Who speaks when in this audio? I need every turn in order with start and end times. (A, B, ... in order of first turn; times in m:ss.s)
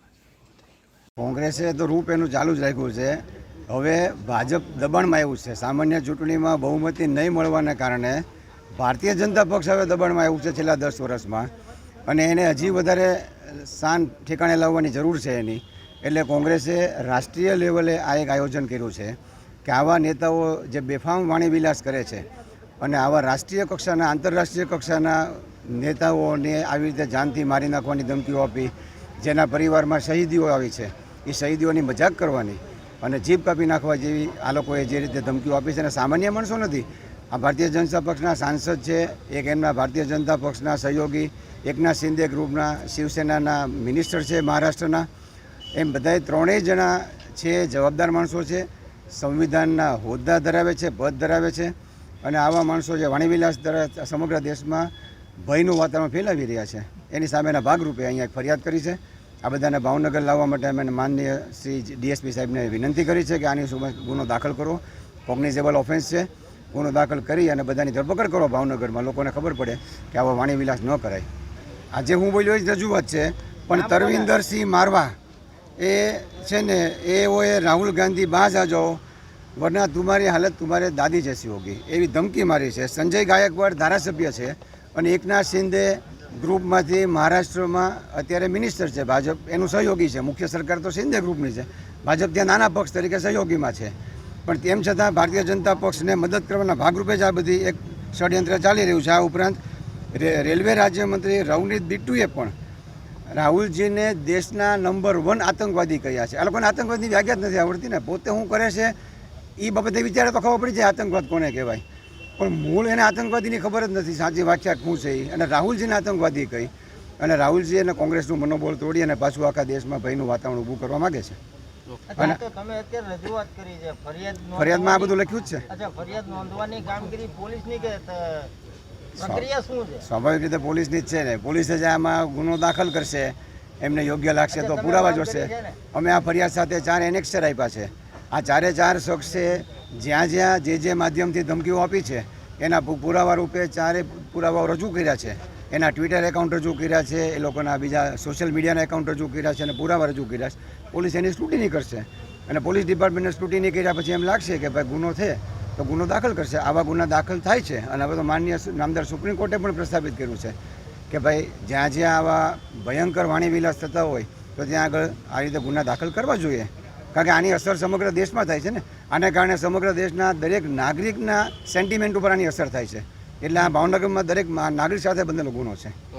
0:01.2-0:08.2 A
0:08.8-0:11.5 A
0:12.1-0:22.3 A
0:22.8-0:45.1 A
0:45.8-0:54.9 A
0:55.4-1:11.3 A
1:11.9-1:15.1 A
1:13.8-1:14.3 B
1:15.8-1:19.0 A
1:19.6-1:33.9 A
1:34.5-1:39.6 A
1:40.1-1:42.5 A
1:43.3-1:49.0 A
1:49.6-1:51.8 A
1:52.4-2:01.4 A
2:02.1-2:05.2 B
2:04.5-2:05.6 A
2:05.7-2:08.5 B
2:09.2-2:10.1 B
2:09.2-2:09.5 A
2:10.0-2:40.6 A
2:14.5-2:15.8 B
2:41.1-2:56.0 A